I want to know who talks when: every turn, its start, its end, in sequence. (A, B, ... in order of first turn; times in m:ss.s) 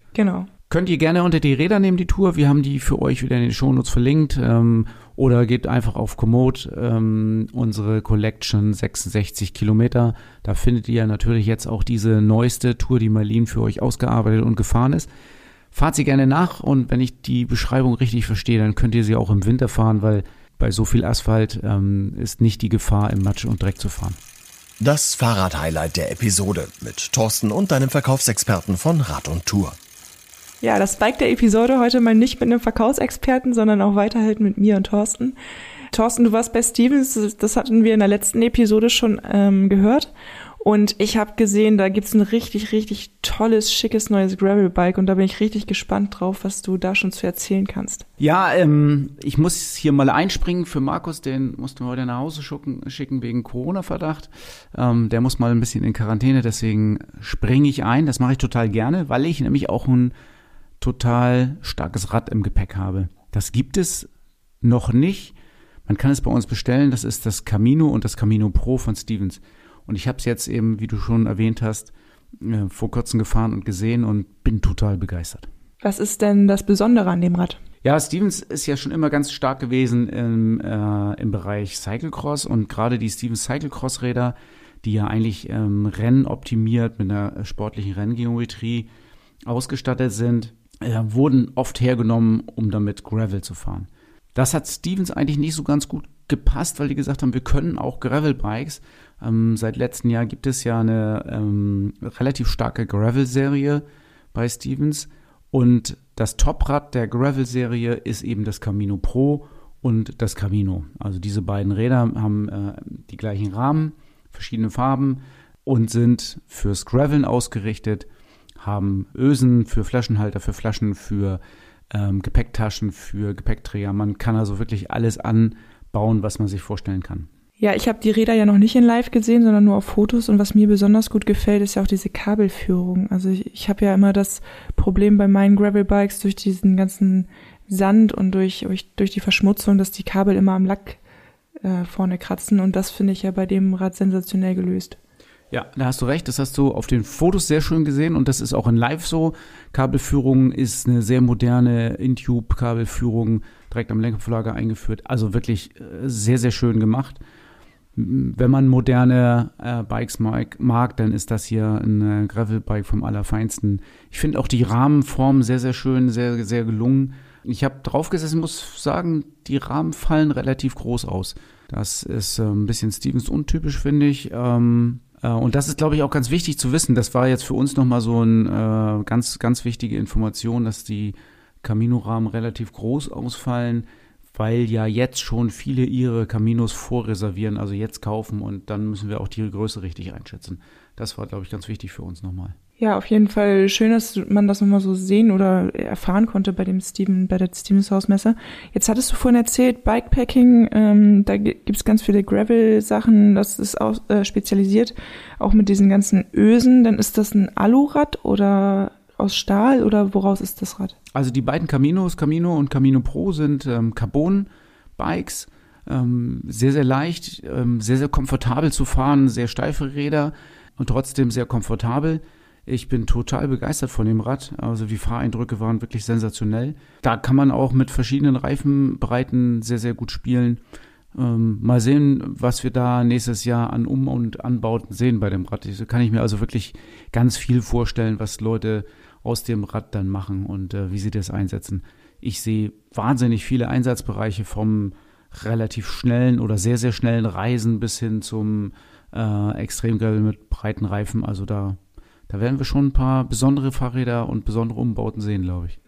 0:00.1-0:00.5 A
0:00.7-0:15.1 B
0:15.7-0:24.2 B
0:24.8-0:29.8 C
0:30.6-0:35.4 A
0:35.9-0:48.0 A
0:48.2-1:00.1 B
1:00.8-1:04.1 B
1:04.6-1:05.4 B
1:05.9-1:15.5 B
1:15.8-1:17.6 A
1:17.8-1:28.9 B
1:29.4-1:58.1 B
1:58.6-2:01.4 B
2:01.9-2:07.3 B
2:07.6-2:21.0 A
2:21.6-2:25.0 A
2:25.5-2:37.2 B
2:38.0-3:12.6 B
3:12.8-3:31.0 A
3:31.1-3:50.6 B
3:51.1-4:11.8 B
4:12.3-4:15.8 B